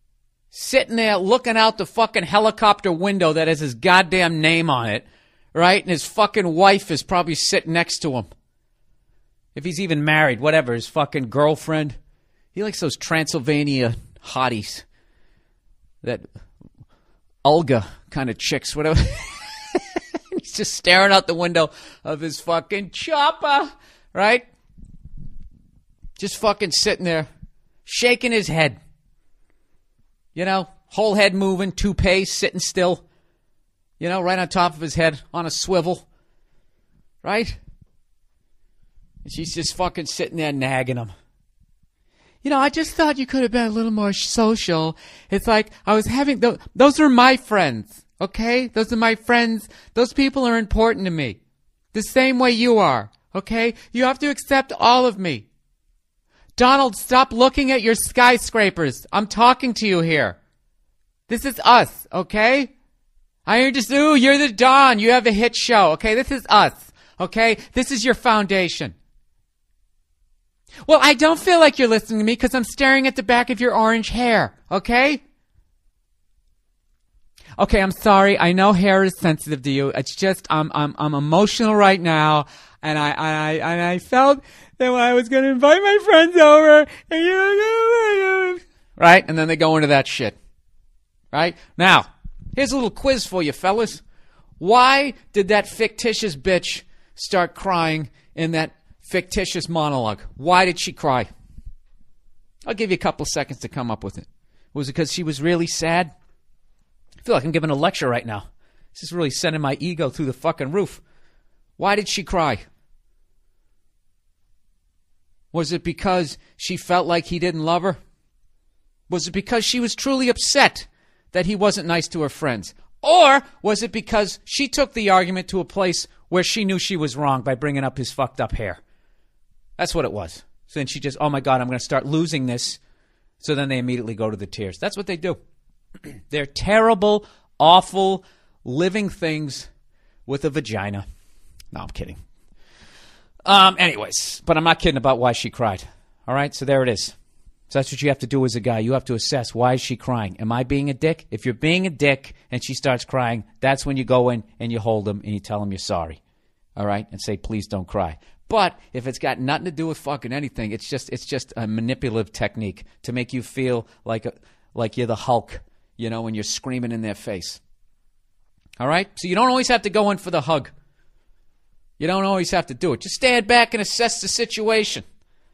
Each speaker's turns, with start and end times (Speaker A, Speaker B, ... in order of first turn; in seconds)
Speaker A: 0.5-8.3, 9.5-11.9, 12.5-14.8, 17.4-24.4, 26.2-27.3, 27.8-28.8, 30.3-33.0, 34.0-36.1, 37.2-37.6, 39.2-41.1, 42.4-51.4, 51.9-55.5, 56.6-60.4, 61.3-62.7, 63.5-68.9, 70.8-75.2, 77.6-90.3, 91.3-94.0, 94.6-101.3, 102.6-106.1, 107.2-111.0, 111.8-112.6, 115.5-118.0, 119.1-128.8, 129.8-132.8, 133.4-135.4, 136.3-139.7, 140.2-141.0, 141.7-142.2, 143.4-147.1, 147.7-156.2, 156.8-167.6, 168.8-170.7, 172.0-175.0